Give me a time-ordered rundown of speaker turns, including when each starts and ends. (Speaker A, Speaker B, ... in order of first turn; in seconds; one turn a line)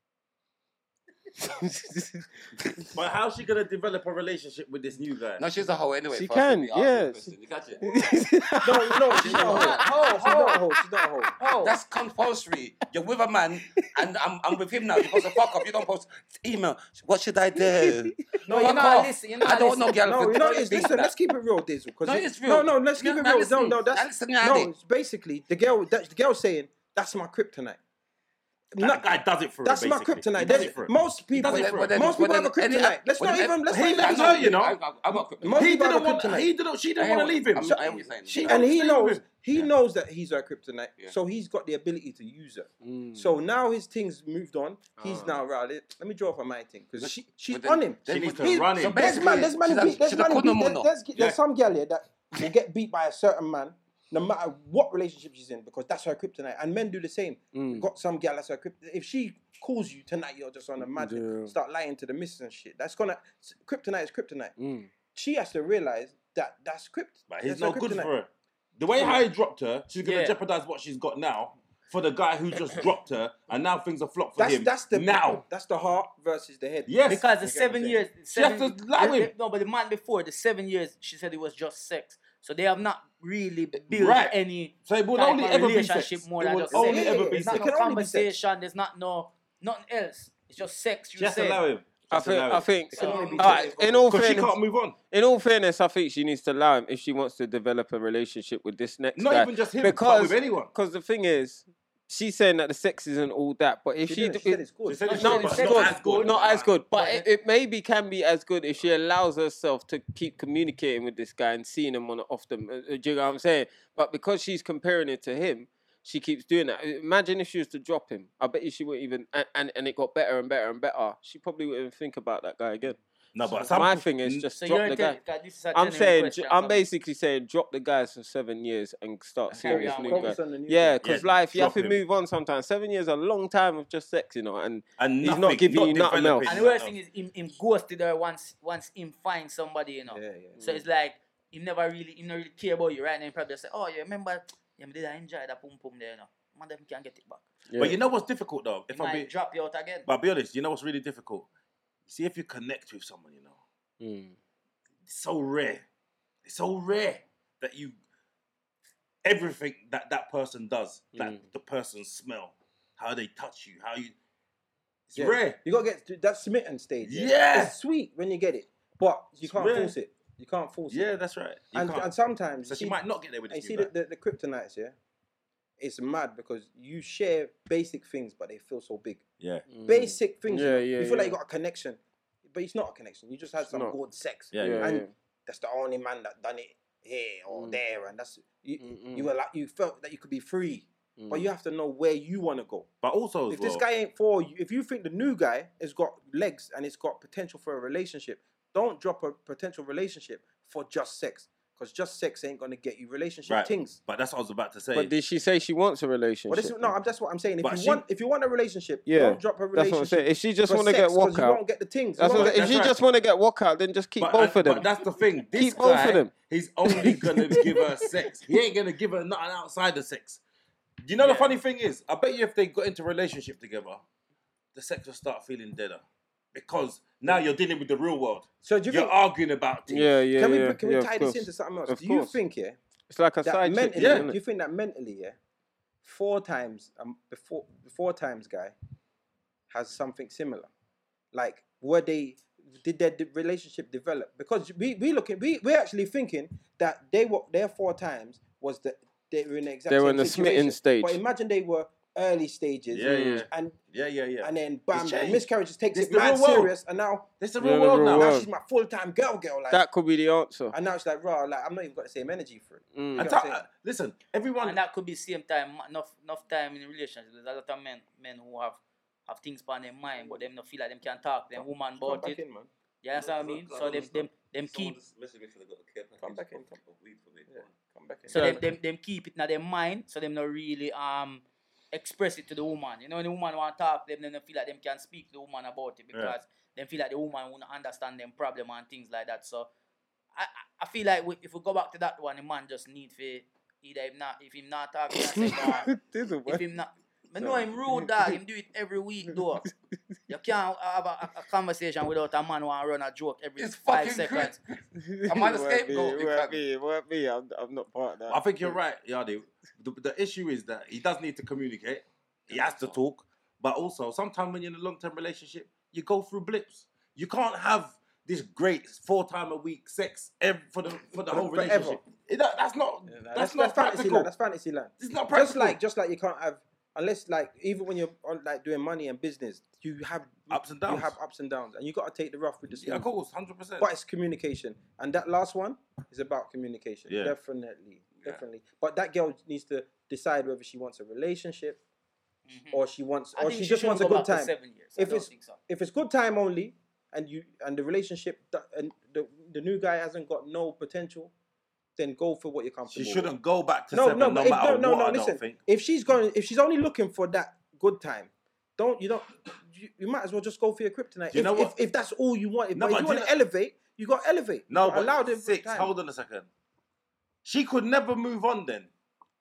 Speaker A: 1.4-2.9
Speaker B: 2.9-5.4
Speaker C: 5.4-7.9
Speaker A: 6.1-11.3
Speaker D: 8.6-11.3
Speaker C: 9.1-9.8
Speaker E: 9.2-10.6
Speaker E: 11.4-11.7
Speaker C: 11.6-21.1
Speaker A: 15.0-15.5
Speaker A: 17.6-18.3
Speaker E: 18.4-20.9
Speaker D: 18.5-18.9
Speaker D: 19.9-27.8
Speaker C: 22.0-24.7
Speaker D: 28.8-29.1
Speaker B: 28.8-32.2
Speaker D: 29.6-34.6
Speaker C: 31.4-35.7
Speaker B: 33.7-34.8
Speaker D: 35.4-36.5
Speaker B: 35.5-39.2
Speaker C: 37.0-38.6
Speaker D: 37.6-64.5
Speaker A: 42.8-43.4
Speaker A: 45.0-45.4
Speaker C: 47.0-50.9
Speaker B: 48.1-49.4
Speaker B: 51.1-51.4
Speaker A: 57.5-57.9
Speaker A: 60.8-61.5
Speaker A: 64.6-64.9
Speaker D: 65.2-68.1
Speaker B: 67.3-75.4
Speaker E: 69.9-70.4
Speaker D: 74.4-78.0
Speaker B: 76.9-77.2
Speaker E: 77.1-91.7
Speaker B: 78.3-79.3
Speaker B: 83.9-87.7
Speaker D: 86.7-88.3
Speaker B: 91.2-92.8
Speaker A: 92.1-94.5
Speaker D: 92.9-94.1
Speaker E: 92.9-93.8
Speaker B: 93.9-95.0
Speaker A: 95.1-125.2
Speaker B: 99.2-100.7
Speaker D: 104.0-105.2
Speaker B: 104.9-106.7
Speaker E: 105.1-107.3
Speaker B: 123.3-124.5
Speaker E: 124.6-126.9
Speaker A: 125.7-136.5
Speaker E: 129.5-130.4
Speaker D: 129.6-131.0
Speaker B: 131.0-132.0
Speaker B: 135.0-136.9
Speaker E: 136.4-147.4
Speaker D: 140.1-140.6
Speaker A: 147.7-148.0
Speaker B: 147.8-149.3
Speaker E: 148.9-150.1
Speaker B: 150.1-151.5
Speaker B: 152.1-153.6
Speaker A: 154.0-154.4
Speaker B: 155.1-155.8
Speaker B: 156.4-158.0
Speaker B: 159.2-164.2
Speaker A: 161.2-161.4
Speaker B: 165.1-165.6
Speaker D: 165.2-171.1
Speaker B: 167.0-167.8
Speaker B: 169.4-170.0
Speaker B: 170.9-172.1
Speaker D: 171.7-175.0
Speaker B: 172.7-173.9
Speaker D: 175.8-179.2
Speaker B: 179.4-179.7
Speaker A: 179.7-181.4
Speaker D: 179.8-192.9
Speaker A: 183.6-183.9
Speaker B: 184.5-184.9
Speaker A: 184.6-185.1
Speaker A: 187.5-187.8
Speaker A: 188.8-189.3
Speaker A: 191.2-191.5
Speaker B: 193.0-193.8
Speaker D: 193.5-204.0
Speaker B: 203.5-205.1
Speaker A: 204.9-206.9
Speaker D: 206.5-212.7
Speaker B: 207.6-208.0
Speaker A: 209.1-211.6
Speaker A: 212.2-214.9
Speaker B: 212.2-213.0
Speaker B: 214.2-220.4
Speaker A: 215.5-216.3
Speaker A: 216.9-218.3
Speaker B: 221.0-224.0
Speaker E: 221.2-221.6
Speaker B: 224.7-230.3
Speaker D: 228.6-229.2
Speaker A: 229.9-232.4
Speaker D: 230.3-232.8
Speaker A: 233.1-234.4
Speaker D: 233.4-235.4
Speaker B: 234.0-234.3
Speaker D: 236.0-238.8
Speaker D: 239.7-240.7
Speaker D: 241.3-253.8
Speaker A: 249.9-251.2
Speaker B: 252.9-256.7
Speaker A: 253.1-253.5
Speaker D: 254.4-257.3
Speaker B: 257.4-258.5
Speaker A: 257.6-258.5
Speaker D: 257.9-259.8
Speaker A: 259.7-260.8
Speaker D: 260.7-263.6
Speaker A: 262.9-263.4
Speaker B: 263.1-264.8
Speaker E: 264.6-272.4
Speaker D: 271.6-272.7
Speaker E: 273.0-275.0
Speaker C: 273.1-277.7
Speaker D: 276.2-276.8
Speaker D: 277.5-278.6
Speaker E: 278.3-289.7
Speaker B: 278.4-278.6
Speaker E: 290.4-295.9
Speaker A: 295.1-296.6
Speaker E: 296.5-299.7
Speaker A: 297.4-298.4
Speaker A: 299.3-299.7
Speaker E: 300.3-304.6
Speaker C: 303.6-306.6
Speaker A: 305.0-308.8
Speaker B: 308.3-324.3
Speaker D: 321.3-322.0
Speaker D: 323.1-333.1
Speaker B: 325.0-325.8
Speaker B: 330.5-331.1
Speaker B: 332.7-333.9
Speaker D: 333.8-341.8
Speaker B: 337.1-337.4
Speaker B: 338.2-338.4
Speaker E: 342.5-342.8
Speaker D: 342.7-351.3
Speaker E: 343.4-345.6
Speaker D: 352.0-353.4
Speaker B: 352.9-355.6
Speaker D: 353.9-365.9
Speaker B: 361.3-361.7
Speaker B: 362.7-363.4
Speaker B: 364.7-366.5
Speaker B: 367.4-368.9